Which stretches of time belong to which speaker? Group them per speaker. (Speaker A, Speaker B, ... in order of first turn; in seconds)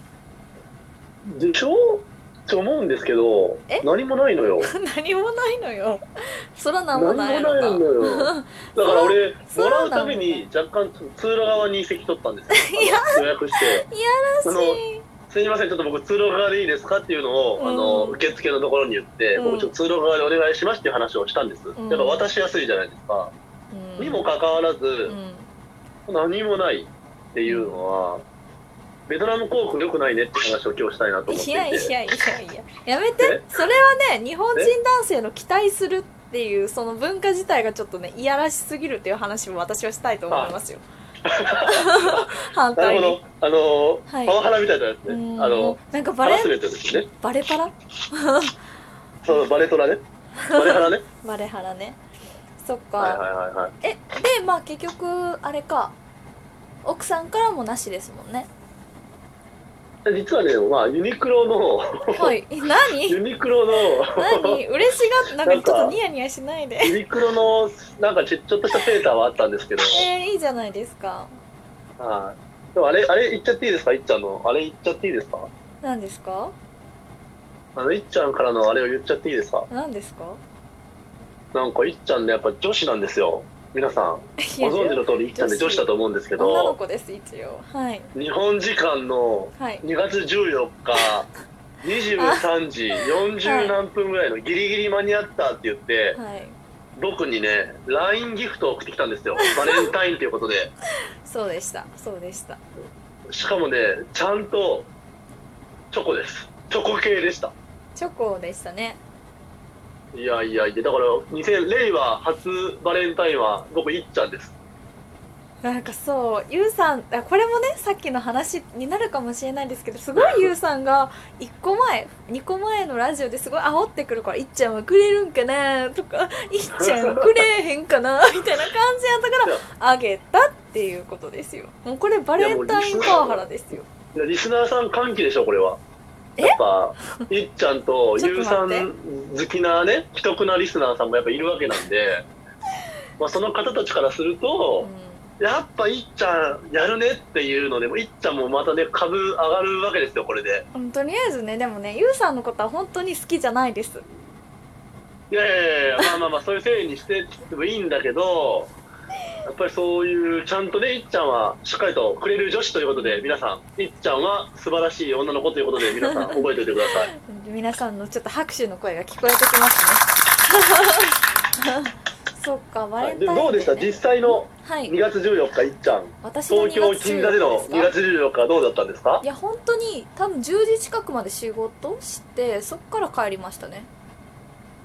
Speaker A: 1.3-4.7, 6.9-13.9, 14.4-23.3, 24.0-25.2, 26.1-28.2, 29.1-31.9, 33.2-33.5, 40.3-40.5, 41.3-47.1, 49.2-50.0, 50.5-51.0, 53.0-53.7, 60.1-62.4, 63.1-64.6, 65.5-66.0, 66.8-70.0, 72.0-75.5, 77.8-79.7, 81.5-86.8, 88.1-91.3, 91.8-96.2, 97.0-100.7, 103.3-104.9, 105.9-107.5, 110.1-114.6, 120.2-120.5, 126.8-127.2, 132.4-133.4, 134.1-135.8, 136.4-142.3, 143.2-144.9, 145.4-150.7, 155.3-158.7, 159.4-167.1, 173.0-179.2
Speaker B: 4.6-10.4, 12.5-15.1, 17.6-18.2, 19.4-19.7, 21.8-22.3, 23.7-24.3, 25.1-25.5, 27.5-27.8, 31.3-40.8, 41.6-43.2, 44.1-44.4, 45.1-48.5, 50.4-52.0, 52.6-53.2, 53.8-56.0, 56.8-58.5, 62.1-63.2, 64.1-67.0, 69.9-71.3, 75.8-76.5, 79.7-80.4, 84.4-88.1, 89.6-89.8, 92.2-92.4, 93.0-93.8, 96.2-96.6, 99.4-99.9, 101.2-102.6, 108.0-109.0, 115.6-133.9, 138.2-138.9, 144.8-145.3, 150.7-154.0, 162.9-163.3, 166.0-166.4, 167.2-174.9, 176.2-177.9, 179.2-183.9